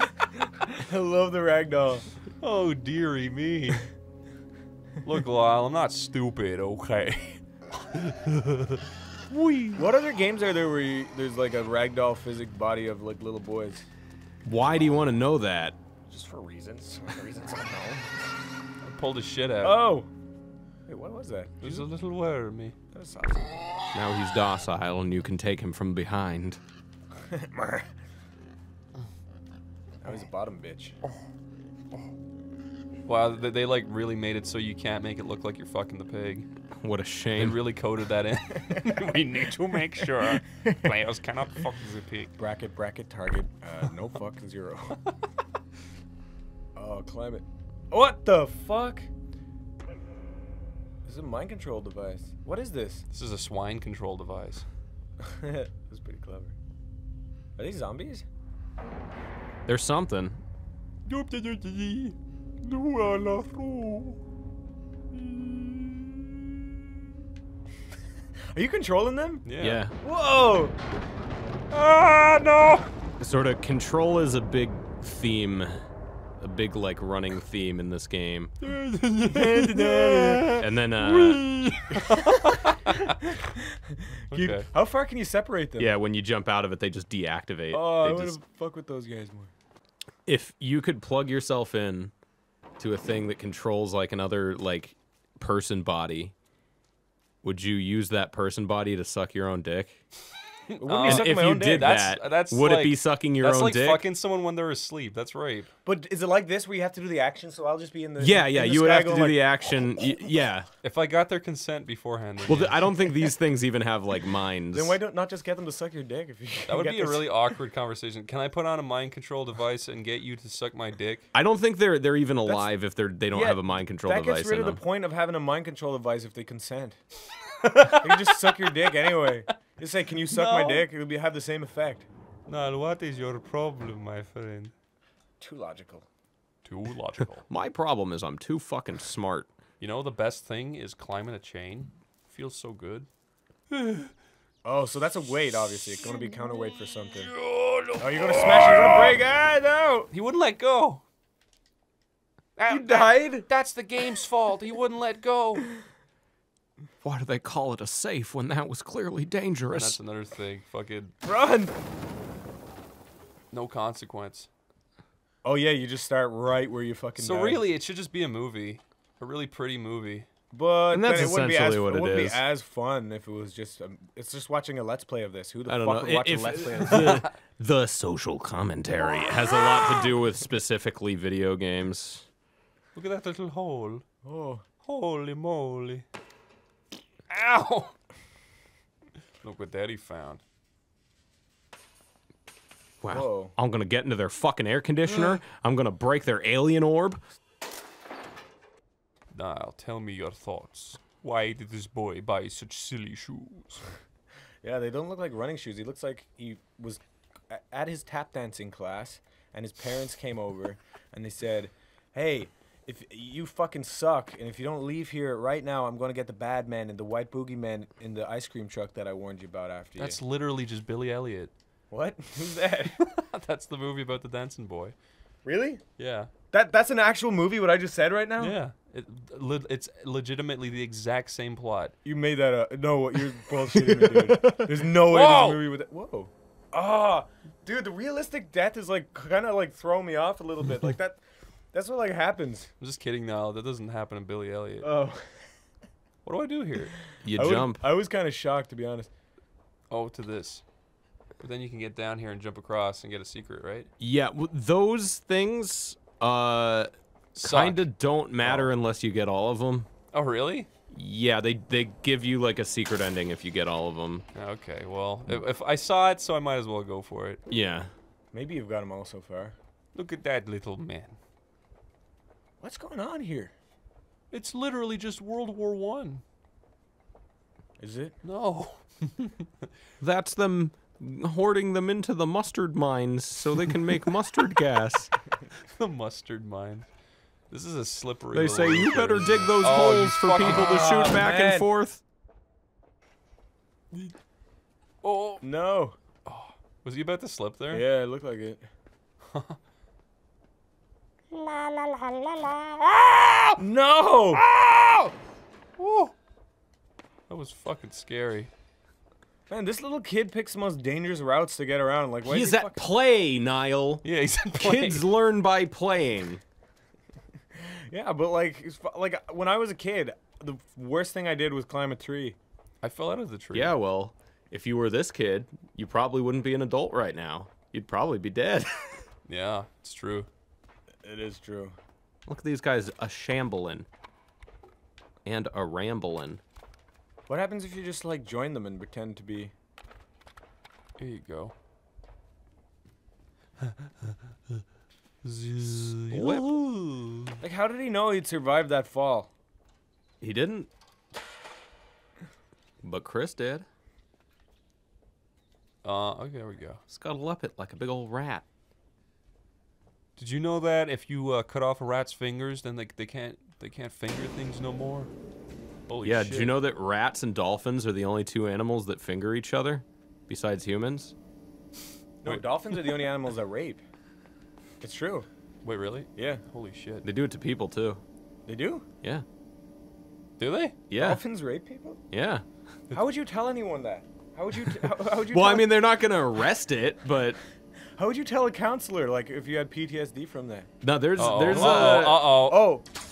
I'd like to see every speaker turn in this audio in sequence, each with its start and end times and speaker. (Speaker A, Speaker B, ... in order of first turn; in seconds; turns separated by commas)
Speaker A: 0.2-2.1, Speaker B: 2.4-3.9, Speaker B: 5.0-9.8, Speaker A: 9.7-13.8, Speaker C: 14.4-15.8, Speaker A: 16.1-18.1, Speaker B: 18.8-19.8, Speaker A: 19.6-20.1, Speaker A: 20.9-21.9, Speaker B: 21.6-22.7, Speaker A: 22.9-23.5, Speaker C: 23.9-26.6, Speaker A: 27.3-27.9, Speaker A: 30.0-31.0, Speaker B: 33.0-36.5, Speaker C: 36.8-37.6, Speaker B: 37.3-42.3, Speaker A: 42.4-45.0, Speaker A: 46.8-49.1, Speaker A: 51.0-53.0, Speaker B: 53.1-54.7, Speaker A: 55.2-56.5, Speaker A: 57.6-58.2, Speaker C: 59.6-60.4, Speaker B: 61.0-64.2, Speaker B: 65.1-66.4, Speaker A: 68.5-69.5, Speaker B: 69.4-69.8, Speaker C: 69.6-70.0, Speaker A: 70.0-70.7, Speaker B: 71.7-72.9, Speaker C: 73.2-75.8, Speaker C: 76.4-78.5, Speaker B: 78.6-83.1, Speaker A: 79.3-80.5, Speaker C: 80.5-81.5, Speaker A: 83.1-85.9, Speaker B: 84.3-84.7, Speaker C: 85.8-88.4, Speaker A: 87.7-89.5, Speaker C: 90.2-92.1, Speaker C: 92.8-96.3, Speaker C: 97.4-100.0, Speaker B: 100.7-105.7, Speaker A: 100.8-101.9, Speaker C: 101.0-104.0, Speaker A: 105.8-109.5, Speaker C: 108.2-110.7, Speaker B: 110.8-112.9, Speaker C: 112.4-115.0, Speaker A: 114.7-117.4, Speaker B: 116.7-121.3, Speaker C: 121.3-124.8, Speaker A: 123.3-127.0, Speaker B: 127.8-128.3, Speaker A: 128.0-132.1, Speaker B: 130.3-130.9, Speaker B: 132.4-134.7, Speaker A: 135.4-136.0, Speaker B: 136.6-137.5, Speaker C: 137.5-139.5, Speaker B: 139.8-143.1, Speaker B: 143.7-144.1, Speaker A: 144.6-147.3, Speaker B: 147.1-149.1, Speaker A: 148.0-150.1, Speaker B: 150.1-151.0, Speaker B: 152.6-155.7, Speaker A: 152.7-153.5, Speaker C: 157.0-160.0, Speaker B: 159.7-161.1, Speaker A: 161.2-161.8, Speaker B: 163.5-164.5, Speaker A: 165.4-167.7, Speaker B: 167.2-170.3, Speaker A: 170.5-177.0, Speaker C: 170.9-172.4, Speaker C: 175.7-182.2, Speaker B: 182.9-184.0, Speaker A: 184.2-184.6, Speaker B: 184.8-186.1, Speaker B: 187.3-187.9, Speaker B: 189.4-190.4, Speaker C: 193.0-197.2, Speaker A: 193.1-193.5, Speaker B: 199.3-203.9, Speaker A: 204.6-220.2, Speaker B: 220.0-221.5, Speaker A: 221.9-223.0, Speaker B: 222.9-224.9, Speaker A: 225.4-225.8, Speaker B: 226.0-226.3, Speaker A: 226.5-228.6, Speaker B: 228.4-231.9, Speaker A: 232.0-241.2, Speaker B: 235.1-235.6, Speaker A: 241.7-242.7, Speaker B: 242.8-244.9, Speaker A: 244.8-245.5, Speaker B: 246.2-247.0, Speaker C: 247.2-247.8, Speaker A: 247.3-249.1, Speaker B: 249.9-250.6, Speaker B: 251.4-253.9, Speaker C: 254.0-259.9, Speaker B: 257.3-257.9, Speaker B: 258.4-258.7, Speaker B: 260.1-260.7, Speaker C: 260.9-264.2, Speaker B: 264.3-267.4, Speaker C: 267.5-267.9, Speaker A: 268.3-269.6, Speaker B: 269.9-271.2, Speaker A: 272.6-273.5, Speaker B: 274.3-276.2, Speaker A: 277.8-278.2, Speaker B: 278.2-279.5, Speaker C: 280.0-285.1, Speaker B: 285.5-286.9, Speaker B: 287.5-290.8, Speaker C: 288.3-292.0, Speaker A: 290.4-291.7, Speaker B: 295.0-295.4, Speaker A: 295.4-296.0, Speaker B: 296.2-297.8, Speaker A: 297.7-298.6, Speaker B: 299.3-299.6, Speaker B: 301.3-303.6, Speaker A: 303.6-304.4, Speaker B: 304.3-305.1, Speaker B: 305.8-306.1, Speaker B: 307.3-308.5, Speaker A: 309.5-312.9, Speaker C: 312.2-316.4, Speaker B: 314.0-315.1, Speaker A: 317.7-322.4, Speaker B: 322.8-323.8, Speaker C: 323.5-329.0, Speaker B: 329.2-330.3, Speaker A: 331.0-331.8, Speaker C: 332.2-333.9, Speaker C: 335.2-336.4, Speaker A: 337.3-339.5, Speaker B: 341.0-341.5, Speaker B: 345.2-347.4, Speaker C: 346.1-346.6, Speaker A: 347.4-349.3, Speaker C: 350.2-350.7, Speaker C: 352.8-353.6, Speaker B: 355.8-356.8, Speaker C: 356.9-358.4, Speaker B: 360.1-365.1, Speaker B: 365.9-366.5, Speaker C: 366.0-371.1, Speaker A: 372.2-373.8, Speaker B: 372.2-372.8, Speaker A: 374.8-375.3, Speaker B: 375.6-377.1, Speaker A: 376.1-376.4, Speaker C: 377.0-378.0, Speaker A: 378.4-378.8, Speaker B: 380.4-380.8, Speaker C: 380.9-381.2, Speaker A: 381.0-382.0, Speaker C: 382.1-382.4, Speaker A: 382.9-385.7, Speaker C: 385.3-387.4, Speaker A: 387.9-390.7, Speaker C: 390.8-392.4, Speaker B: 391.1-392.8, Speaker A: 391.8-392.9